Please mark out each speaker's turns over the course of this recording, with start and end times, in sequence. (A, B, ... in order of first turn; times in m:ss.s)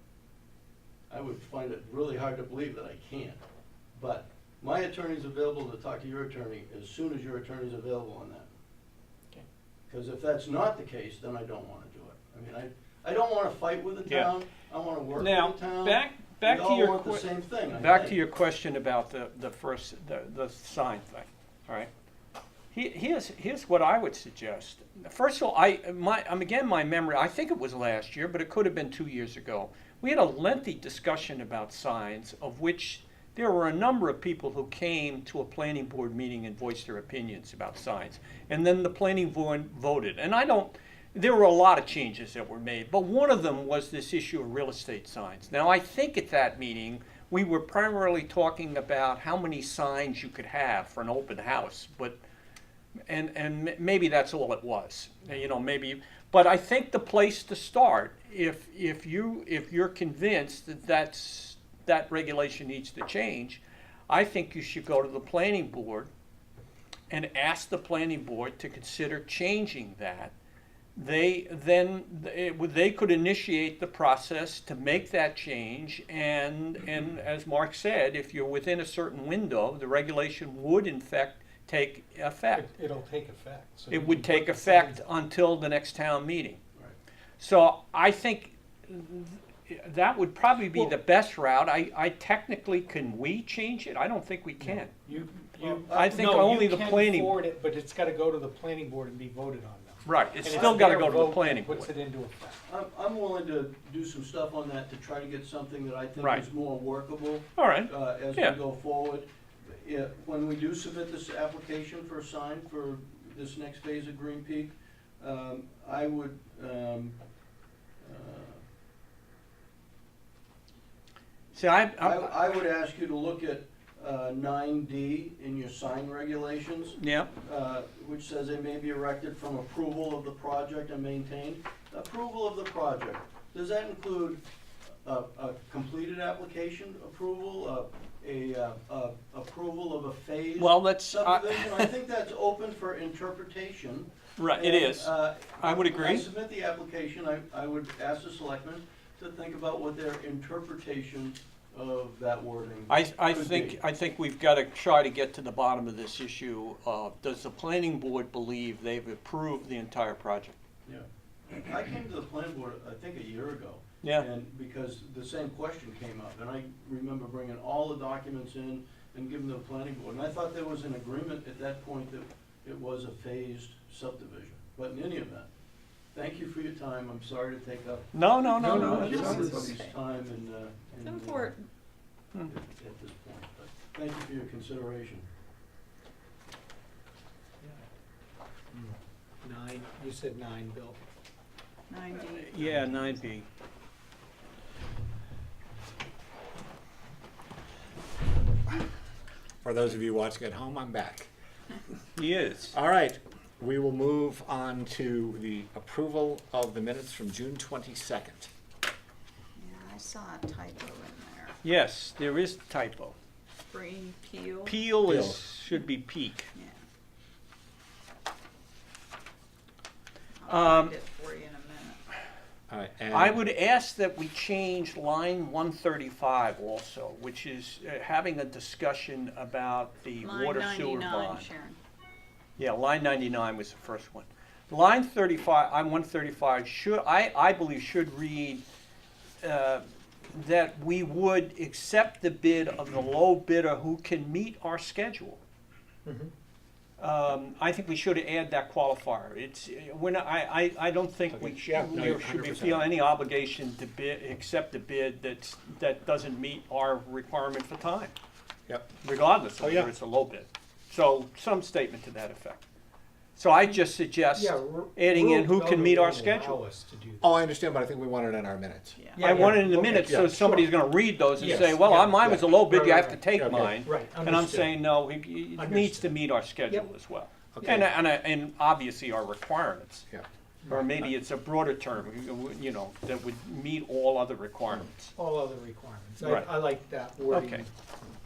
0:01.1-0:03.4 A
0:03.9-0:08.5 A
0:09.9-0:18.2 A
0:14.0-0:14.3 B
0:15.2-0:21.9 B
0:22.7-0:52.2 B
0:53.1-1:06.1 B
1:07.1-1:10.3 B
1:11.0-1:22.6 B
1:22.5-1:25.0 C
1:23.9-1:26.6 B
1:27.4-1:34.9 B
1:34.6-1:42.6 C
1:35.6-1:37.4 B
1:35.9-1:36.2 A
1:40.0-1:41.9 B
1:40.4-1:40.9 A
1:42.6-1:57.2 A
1:47.6-1:48.6 B
1:58.0-1:58.6 A
2:01.5-2:02.3 B
2:02.0-2:14.4 A
2:07.0-2:07.3 B
2:15.0-2:33.8 A
2:20.6-2:21.9 B
2:24.4-2:26.3 B
2:32.9-2:40.5 B
2:41.6-2:55.5 A
2:56.1-3:01.5 A
2:58.1-2:59.5 B
2:58.5-3:00.0 D
2:58.7-2:59.7 C
3:01.0-3:01.6 D
3:02.4-3:05.3 A
3:08.7-3:11.0 C
3:11.9-3:13.2 D
3:12.2-3:13.4 B
3:12.6-3:12.9 C
3:19.6-3:21.3 E
3:22.2-3:22.8 B
3:22.7-3:28.5 E
3:29.6-3:31.6 D
3:31.6-3:33.2 B
3:33.7-3:34.8 D
3:34.6-3:36.5 B
3:35.0-3:35.5 E
3:36.5-3:36.8 D
3:40.4-3:42.0 D
3:40.5-3:40.9 B
3:42.7-3:43.4 E
3:43.1-3:51.5 B
3:50.2-3:51.8 D
3:52.6-3:58.6 B
3:59.4-4:05.4 B
4:07.0-4:18.1 B
4:11.3-4:12.9 E
4:18.7-4:18.9 E
4:19.0-4:22.6 B
4:19.6-4:19.9 E
4:23.3-4:26.6 B
4:24.3-4:27.2 C
4:27.2-4:30.4 E
4:29.0-4:29.3 D
4:29.1-4:30.7 C
4:29.2-4:40.1 B
4:31.4-4:34.8 C
4:31.4-4:32.6 E
4:33.3-4:33.8 E
4:35.6-4:36.1 C
4:37.6-4:37.8 E
4:40.7-4:45.1 B
4:40.8-4:41.1 E
4:45.2-4:47.7 C
4:46.2-4:46.5 B
4:47.3-4:47.6 B